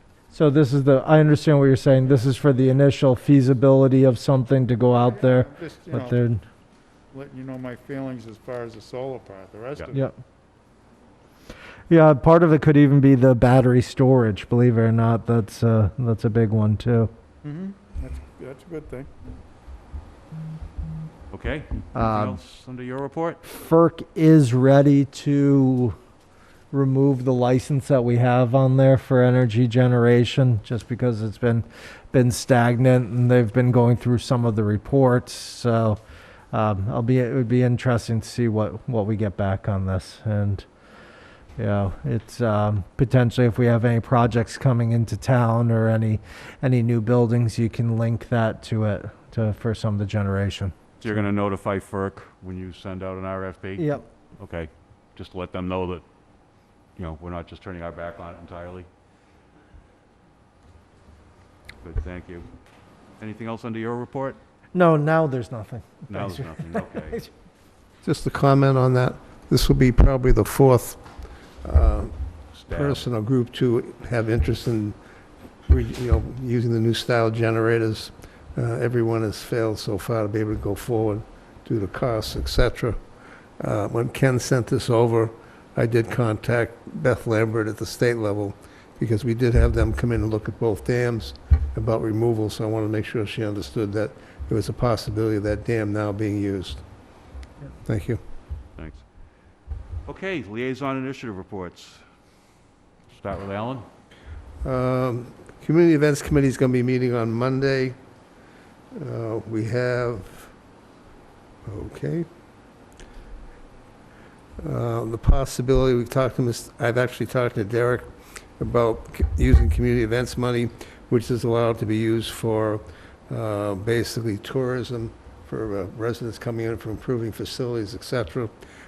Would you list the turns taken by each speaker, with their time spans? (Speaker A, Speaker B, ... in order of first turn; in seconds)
Speaker A: 0.3-6.4, 11.9-17.1, 21.9-22.4, 23.4-25.9, 26.7-36.0, 36.5-40.6, 41.6-51.1, 53.8-54.0, 64.7-67.3
Speaker B: 5.1-6.2, 7.1-10.1, 17.4-19.1
Speaker C: 21.3-23.4, 51.0-56.0, 57.0-58.9, 61.8-62.5, 63.2-64.4, 66.1-67.2, 72.5-73.1, 98.8-99.0, 100.0-102.0, 103.1-103.8
Speaker D: 68.0-71.0, 71.6-72.1, 72.7-75.0, 75.7-83.0, 83.6-96.8, 97.8-98.2, 104.6-108.0, 108.9-110.5, 111.7-112.2, 114.6-118.1, 118.6-128.5